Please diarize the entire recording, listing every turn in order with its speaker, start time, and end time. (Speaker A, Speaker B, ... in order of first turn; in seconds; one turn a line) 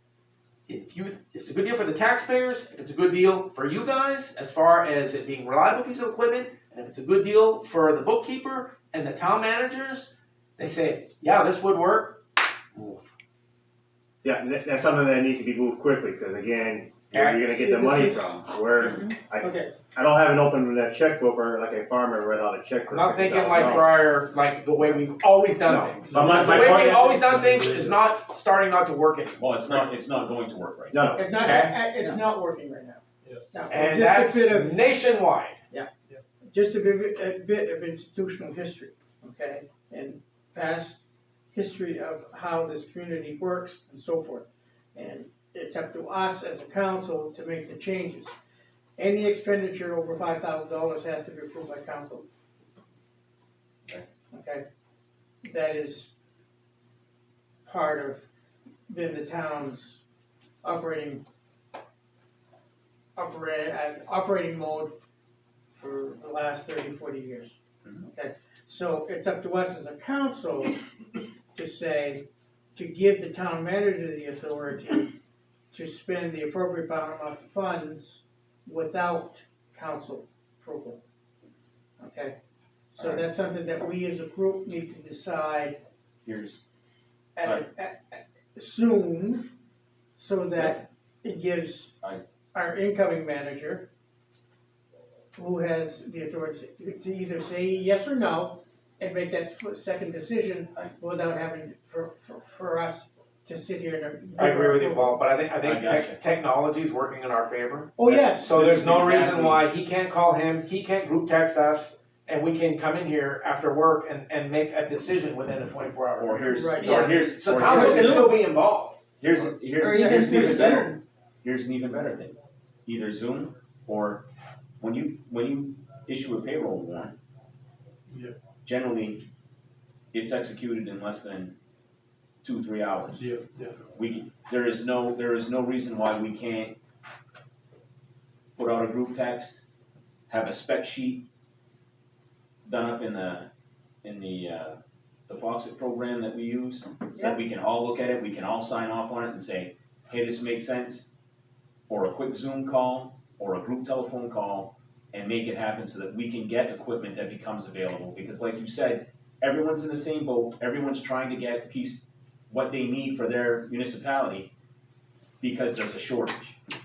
Speaker A: 0.7-12.2
Speaker B: 12.8-13.0
Speaker B: 14.2-23.9
Speaker A: 17.1-17.4
Speaker C: 17.5-18.4
Speaker C: 19.0-19.7
Speaker A: 22.9-29.5
Speaker B: 25.7-27.2
Speaker D: 26.0-28.0
Speaker E: 29.4-31.2
Speaker B: 30.9-31.3
Speaker C: 31.2-34.9
Speaker A: 31.4-31.8
Speaker A: 33.7-35.6
Speaker C: 36.5-41.0
Speaker C: 41.5-48.3
Speaker C: 49.0-52.2
Speaker C: 54.3-54.6
Speaker C: 55.4-56.1
Speaker C: 57.6-58.2
Speaker C: 58.9-60.0
Speaker C: 60.6-61.2
Speaker C: 63.2-64.9
Speaker C: 65.7-70.8
Speaker C: 71.5-75.1
Speaker C: 75.7-81.0
Speaker C: 82.0-82.3
Speaker C: 82.9-85.8
Speaker E: 83.0-83.3
Speaker E: 86.2-86.6
Speaker C: 87.3-89.5
Speaker C: 90.2-92.0
Speaker E: 90.6-90.8
Speaker C: 92.5-93.9
Speaker C: 95.3-105.2
Speaker A: 104.4-119.0
Speaker E: 105.6-106.2
Speaker C: 108.0-108.5
Speaker E: 108.0-109.6
Speaker E: 116.2-118.4
Speaker C: 116.5-117.2
Speaker C: 117.7-118.4
Speaker E: 119.2-124.2
Speaker C: 119.8-121.0
Speaker E: 124.8-127.2
Speaker D: 128.1-128.3
Speaker E: 128.6-129.2
Speaker E: 130.1-131.6
Speaker E: 132.4-133.2
Speaker D: 133.1-133.8
Speaker E: 133.9-136.8
Speaker E: 138.6-139.6
Speaker E: 140.3-141.3
Speaker E: 142.6-143.5
Speaker E: 144.0-151.1
Speaker E: 151.9-164.5
Speaker E: 165.4-166.6